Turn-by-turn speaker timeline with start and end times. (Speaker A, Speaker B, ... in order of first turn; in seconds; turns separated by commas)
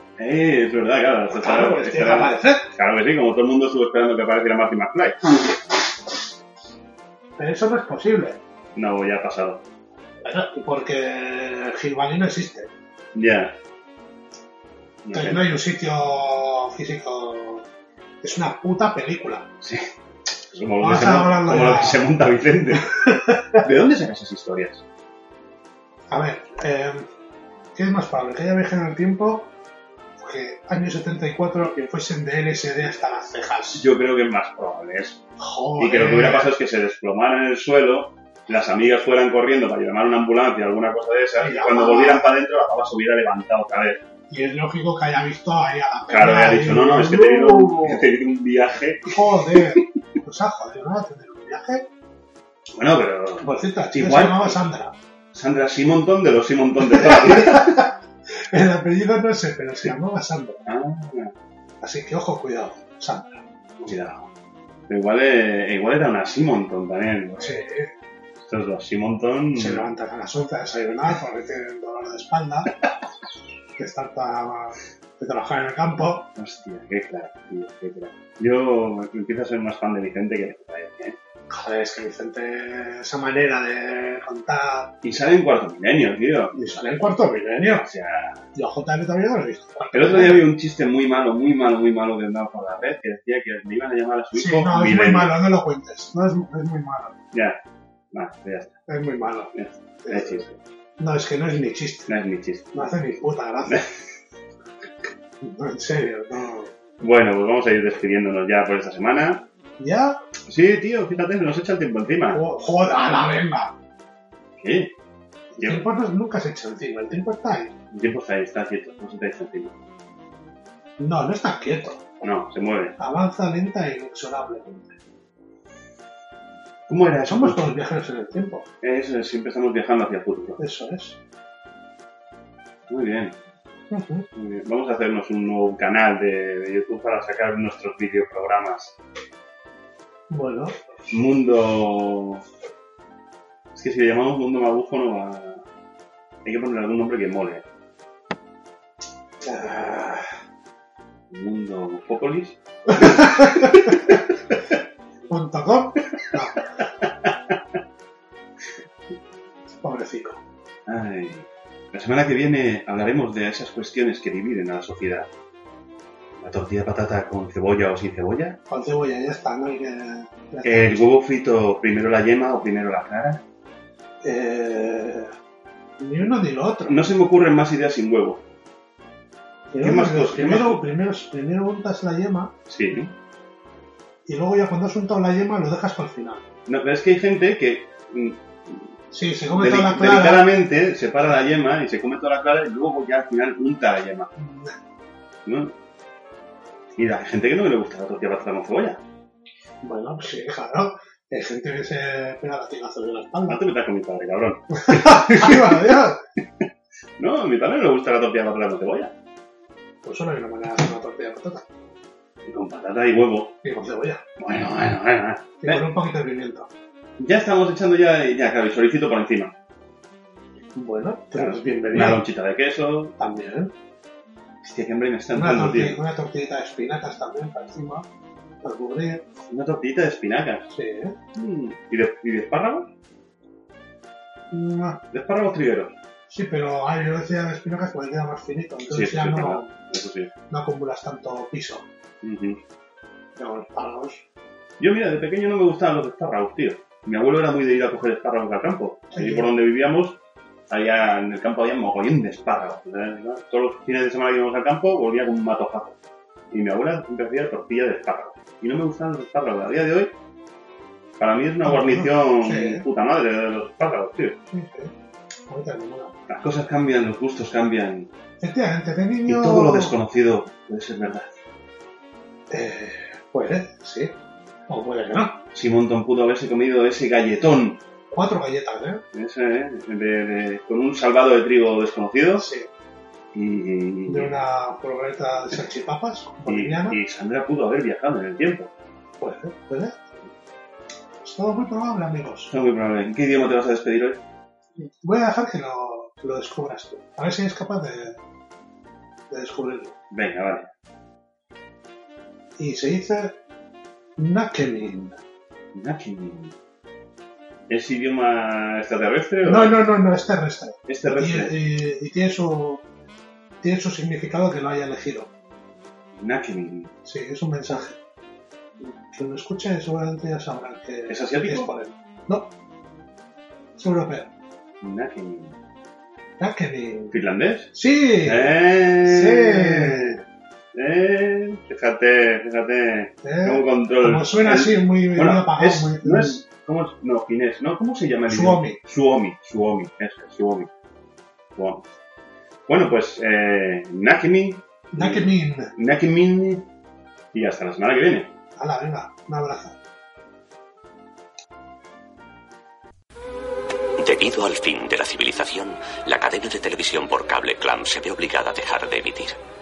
Speaker A: 0.2-5.2, Speaker B: 1.3-2.7, Speaker B: 7.4-8.4, Speaker A: 8.7-9.6, Speaker B: 10.2-12.7, Speaker A: 13.1-13.6, Speaker A: 15.0-15.5, Speaker B: 15.1-17.6, Speaker B: 18.2-19.5, Speaker A: 19.6-19.9, Speaker A: 20.5-23.0, Speaker B: 20.8-22.0, Speaker B: 22.8-23.6, Speaker A: 23.5-24.8, Speaker B: 26.1-27.1, Speaker B: 27.7-29.5, Speaker B: 30.2-33.9, Speaker A: 33.7-35.2, Speaker B: 35.4-36.5, Speaker A: 35.8-44.0, Speaker B: 41.4-42.3, Speaker B: 44.3-48.0, Speaker A: 46.1-49.8, Speaker B: 49.0-51.9, Speaker A: 52.7-54.6, Speaker B: 53.4-55.0, Speaker A: 55.3-57.9, Speaker B: 56.8-60.6, Speaker A: 60.6-61.3, Speaker B: 61.8-63.4, Speaker A: 63.8-64.3, Speaker A: 64.9-67.6, Speaker B: 67.4-67.9, Speaker A: 68.4-69.8, Speaker B: 69.5-72.7, Speaker B: 73.8-76.3, Speaker A: 76.3-81.2, Speaker B: 81.5-84.9, Speaker A: 85.0-86.5, Speaker B: 86.5-87.9, Speaker A: 87.7-88.4, Speaker B: 88.5-90.5, Speaker A: 89.9-95.4, Speaker B: 94.3-97.2, Speaker A: 97.3-97.6, Speaker A: 98.1-98.8, Speaker B: 98.9-102.1, Speaker A: 99.5-100.5, Speaker A: 102.1-102.9, Speaker B: 102.7-103.8, Speaker A: 103.7-103.9, Speaker B: 105.4-106.7, Speaker A: 107.0-109.5, Speaker B: 109.8-110.2, Speaker A: 110.5-112.4, Speaker B: 112.3-113.7, Speaker A: 114.6-114.9, Speaker B: 115.5-117.8, Speaker A: 117.9-119.7, Speaker B: 121.0-122.1, Speaker A: 122.2-122.9, Speaker B: 123.0-124.9, Speaker A: 126.9-127.6, Speaker B: 127.3-128.7, Speaker A: 128.8-130.6, Speaker B: 130.6-131.2, Speaker A: 132.9-133.4, Speaker B: 133.9-134.3, Speaker A: 134.3-139.0, Speaker B: 140.3-140.7, Speaker A: 141.1-142.4, Speaker A: 143.7-145.6, Speaker A: 146.4-147.7, Speaker B: 149.4-150.3, Speaker A: 151.3-154.6, Speaker B: 152.9-153.7, Speaker B: 155.3-156.7, Speaker A: 157.0-157.6, Speaker B: 159.8-160.4, Speaker A: 160.8-165.3, Speaker A: 166.3-168.6, Speaker B: 168.7-171.0, Speaker A: 170.6-173.4, Speaker B: 174.2-175.3, Speaker B: 176.0-177.0, Speaker A: 176.9-178.4, Speaker B: 179.7-182.5, Speaker A: 179.8-180.8, Speaker A: 182.7-183.1, Speaker B: 184.3-186.5, Speaker A: 186.7-189.0, Speaker B: 189.1-190.5, Speaker A: 189.5-194.3, Speaker B: 194.3-194.7, Speaker A: 195.4-195.7, Speaker A: 196.9-199.0, Speaker B: 199.8-203.6, Speaker A: 203.5-205.9, Speaker B: 204.8-206.2, Speaker A: 207.2-209.1, Speaker B: 210.0-211.7, Speaker A: 212.4-213.5, Speaker B: 213.6-214.2, Speaker A: 214.4-215.8, Speaker B: 215.6-216.7, Speaker A: 217.2-219.5, Speaker B: 220.7-222.2, Speaker A: 221.3-223.2, Speaker B: 223.2-223.7, Speaker A: 224.6-226.0, Speaker B: 225.3-228.1, Speaker B: 228.6-229.3, Speaker A: 229.5-230.7, Speaker B: 230.7-231.2, Speaker A: 231.3-232.9, Speaker B: 234.5-235.0, Speaker A: 235.1-235.9, Speaker B: 236.3-239.7, Speaker A: 238.9-240.3, Speaker B: 240.5-241.8, Speaker A: 242.2-242.6, Speaker B: 243.3-244.2, Speaker A: 244.8-256.0, Speaker B: 249.1-249.5, Speaker A: 256.5-260.1, Speaker A: 261.2-264.4, Speaker B: 261.6-262.8, Speaker B: 264.5-264.9, Speaker B: 265.5-266.2, Speaker A: 266.3-268.1, Speaker B: 268.4-270.0, Speaker A: 269.3-271.3, Speaker B: 272.5-274.2, Speaker B: 274.7-275.4, Speaker A: 275.5-277.8, Speaker B: 278.1-279.0, Speaker A: 279.1-282.5, Speaker B: 282.4-282.7, Speaker A: 283.3-284.4, Speaker B: 284.1-287.0, Speaker A: 286.4-288.7, Speaker B: 289.2-290.0, Speaker B: 291.2-292.5, Speaker A: 292.5-294.2, Speaker B: 294.8-298.2, Speaker B: 299.3-300.0, Speaker A: 300.1-300.7, Speaker B: 302.6-303.4, Speaker B: 304.2-305.2, Speaker A: 305.7-306.5, Speaker A: 307.7-309.8, Speaker B: 309.4-312.8, Speaker A: 310.9-311.6, Speaker B: 313.6-315.3, Speaker A: 316.1-316.9, Speaker B: 317.0-318.0, Speaker B: 318.8-322.5, Speaker A: 321.1-321.7, Speaker B: 323.8-324.3, Speaker A: 324.8-325.6, Speaker B: 326.4-327.2, Speaker A: 327.1-330.2, Speaker B: 327.7-330.2, Speaker A: 330.7-340.7, Speaker B: 333.2-336.4, Speaker B: 338.3-338.8, Speaker A: 341.5-341.9, Speaker A: 342.7-346.7, Speaker B: 344.9-345.7, Speaker A: 347.3-348.3, Speaker B: 348.6-349.8, Speaker C: 354.0-359.4